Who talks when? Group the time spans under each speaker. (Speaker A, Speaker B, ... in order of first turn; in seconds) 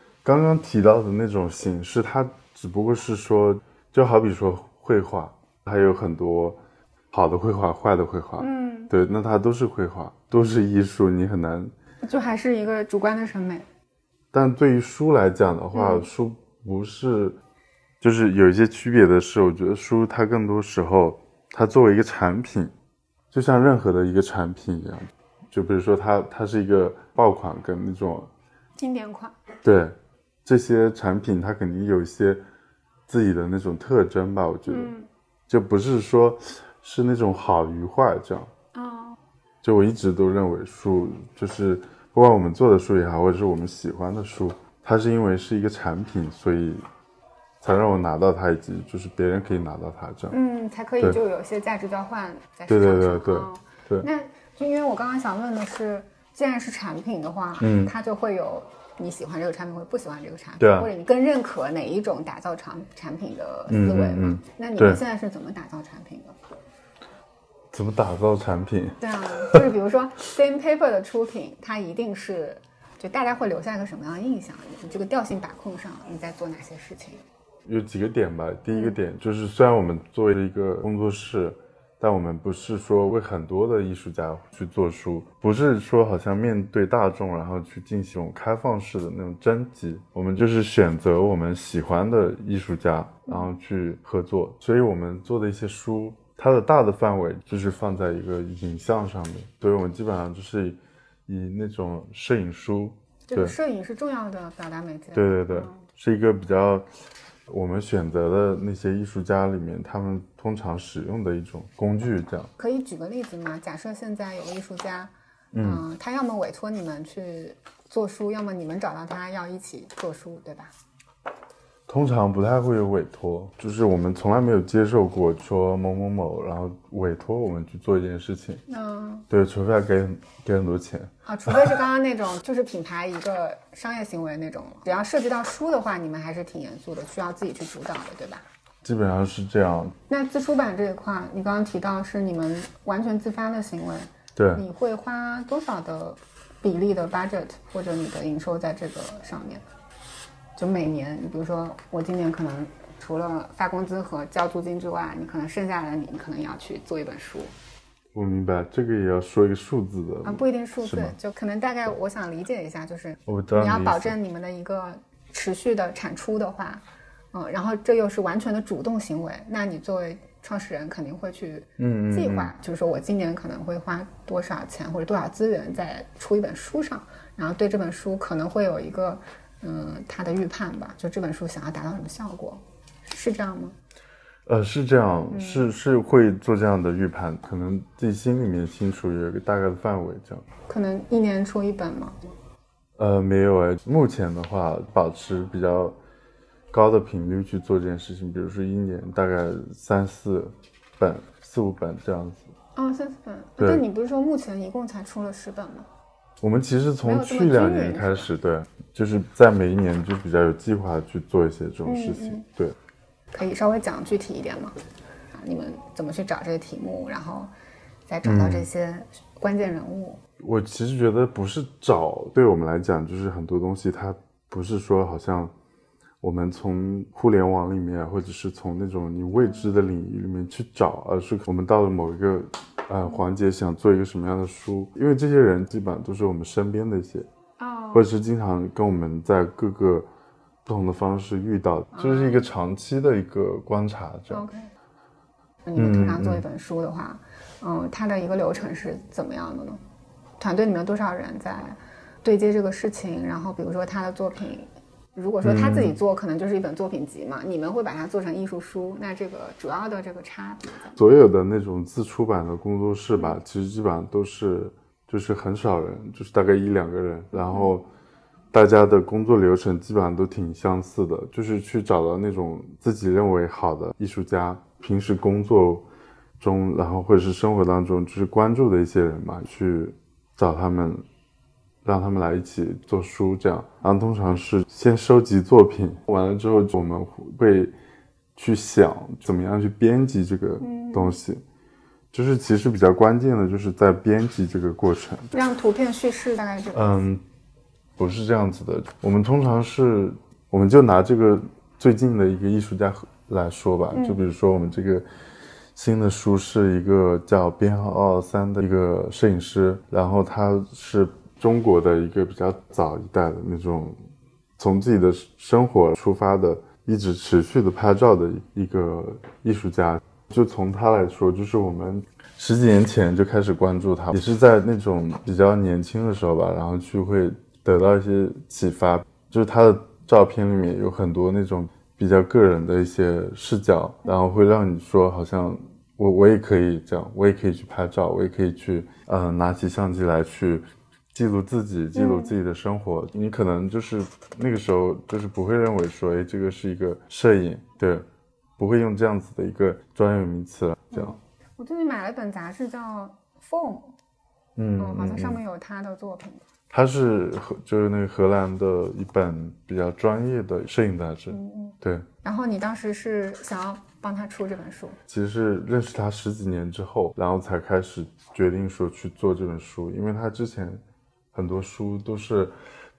Speaker A: 0.2-6.6, 7.1-11.7, 14.3-17.4, 18.0-22.7, 23.3-28.3, 29.6-32.4, 33.1-34.9, 35.5-38.5, 39.6-46.8, 47.6-50.4, 52.7-54.1, 57.6-57.9, 60.6-60.9, 63.7-65.0, 67.7-69.6, 77.7-103.5, 105.1-106.9, 107.5-112.5, 115.5-115.8, 121.9-128.6, 129.3-131.7, 138.8-139.9, 144.4-144.6, 158.1-161.1, 163.2-164.1, 171.8-172.5, 184.5-190.4, 193.0-195.9, 196.7-202.5, 203.6-203.8, 206.4-212.8, 218.2-218.7, 220.4-225.5, 226.2-237.3, 237.9-240.1, 240.7-244.4, 245.8-246.4, 255.4-255.9, 260.9-267.9, 268.5-275.9, 276.4-281.0, 281.8-287.7, 288.4-291.4, 292.1-295.3, 296.7-297.2, 298.0-305.1, 305.8-314.0, 314.6-348.0, 348.6-351.2, 354.6-355.4, 356.7-362.1, 365.1-370.8, 371.3-372.5
Speaker B: 8.4-8.9, 12.0-13.7, 15.7-16.1, 28.8-29.4, 34.7-35.1, 38.7-39.2, 50.3-66.4, 69.0-77.2, 103.3-105.8, 112.6-120.7, 128.7-129.3, 131.2-138.4, 140.1-149.6, 150.6-157.5, 160.2-183.8, 185.3-185.8, 190.7-192.2, 202.8-205.9, 207.0-208.3, 211.8-212.4, 213.3-214.8, 215.3-217.5, 218.1-220.2, 229.4-229.7, 237.6-238.1, 241.9-242.4, 244.3-244.7, 245.6-249.8, 250.4-261.0, 263.1-263.4, 267.3-267.8, 290.6-291.2, 295.3-296.9, 303.9-304.2, 341.9-342.4, 350.9-353.9, 354.8-356.4, 361.3-365.0